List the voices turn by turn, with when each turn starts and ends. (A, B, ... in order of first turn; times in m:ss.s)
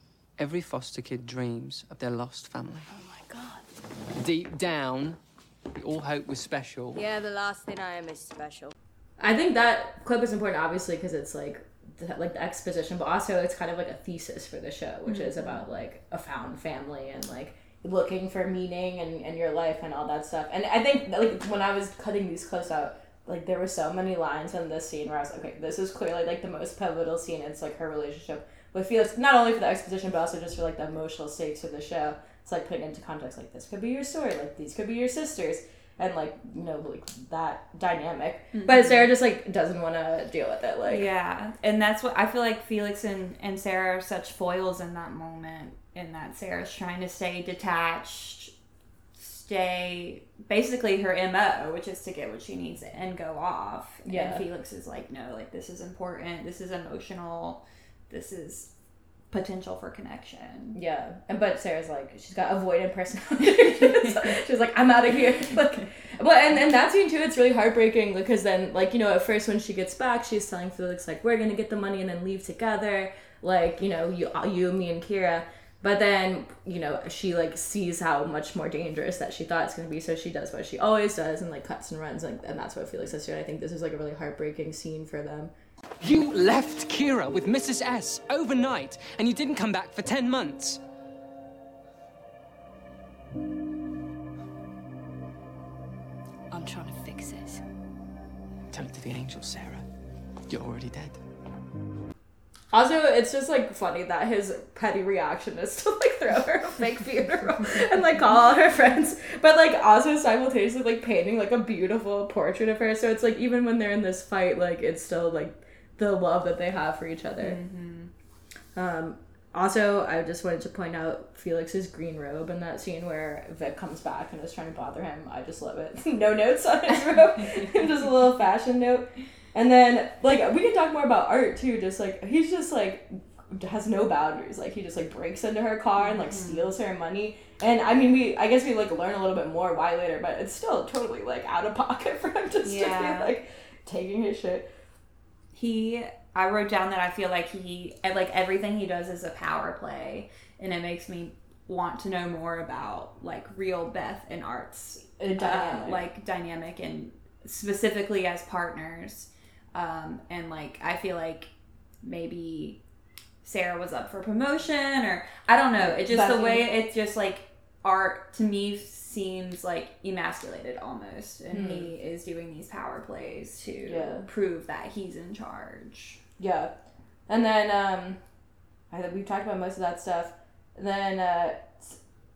0:00.4-0:02.9 A
0:02.9-0:03.7 B
0:04.1-0:05.2 A
0:05.7-0:07.0 A
0:07.0-0:08.7 B
0:09.2-0:41.1 C
0:15.1-0:15.6 D
0:38.5-0:39.1 D
0:40.9-0:48.5 D
0:49.2-0:58.7 D
0:54.0-0:54.5 C
0:59.3-1:00.8 D
1:00.7-1:25.5 C
1:03.5-1:04.4 D
1:26.0-1:30.8 A
1:36.5-1:37.6 B
1:38.7-1:39.8 A
1:40.5-1:41.2 A
1:42.7-1:57.6 C
1:57.4-1:58.1 D
1:58.8-2:24.7 C
2:07.4-2:07.7 D
2:16.0-2:16.7 D
2:22.6-2:23.3 D
2:25.5-2:41.5 D
2:35.2-2:36.0 C
2:42.0-2:42.8 D
2:43.4-2:56.2 D
2:45.8-2:46.7 C
2:51.5-2:51.9 C
2:53.8-2:54.3 C
2:56.4-2:56.8 C
2:57.3-2:58.2 C
2:58.9-3:02.0 C